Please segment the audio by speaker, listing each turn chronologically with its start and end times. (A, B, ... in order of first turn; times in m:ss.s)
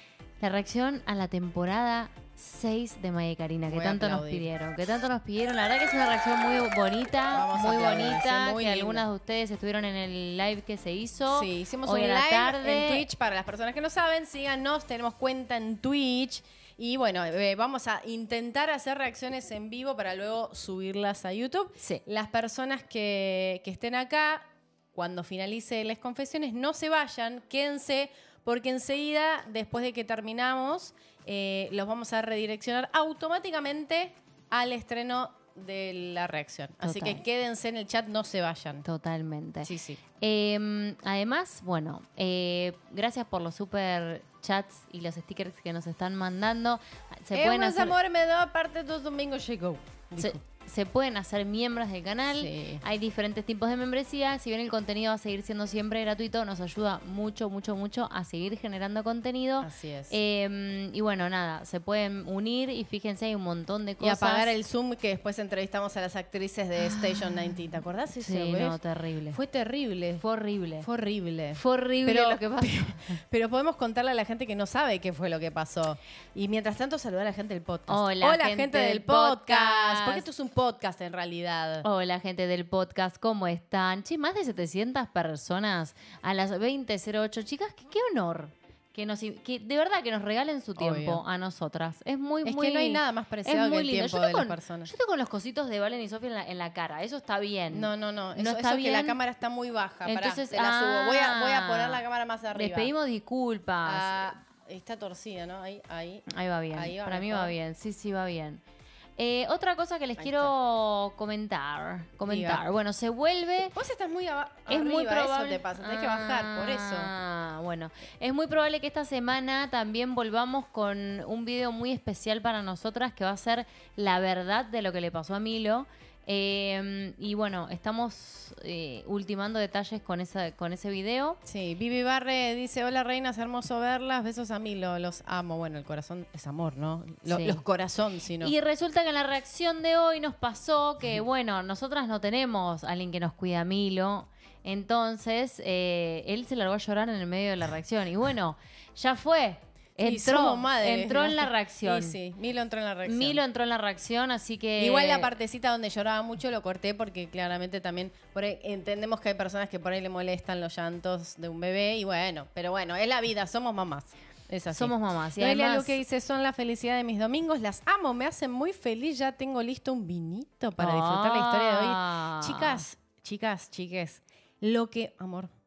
0:00.4-0:13.0 A
0:03.7-0:04.5 B
0:07.3-0:09.0 B
0:11.3-0:38.8 B
0:36.8-0:37.2 A
0:38.8-0:47.9 A
0:39.6-0:40.0 B
0:47.3-0:50.4 B
0:50.2-1:04.5 A
0:52.3-0:52.8 B
0:59.6-1:00.2 B
1:04.0-1:08.8 B
1:06.8-1:07.6 A
1:08.2-1:09.4 A
1:09.3-1:10.2 B
1:10.2-1:10.9 A
1:10.8-1:21.8 B
1:11.5-1:13.2 A
1:17.9-1:20.2 A
1:21.8-1:39.2 A
1:30.8-1:31.2 B
1:32.4-1:34.9 B
1:37.7-1:42.9 B
1:40.0-1:42.0 A
1:42.5-1:44.3 A
1:43.8-1:47.5 B
1:46.3-1:48.6 A
1:49.2-1:53.8 A
1:50.2-1:50.5 B
1:52.3-1:52.6 B
1:53.7-1:57.1 B
1:54.7-2:11.4 A
2:11.4-2:18.5 B
2:17.3-2:17.6 A
2:18.4-2:32.2 A
2:30.0-2:33.4 B
2:33.0-2:35.3 A
2:34.8-2:55.5 B
2:44.7-2:46.0 A
2:50.8-2:52.8 A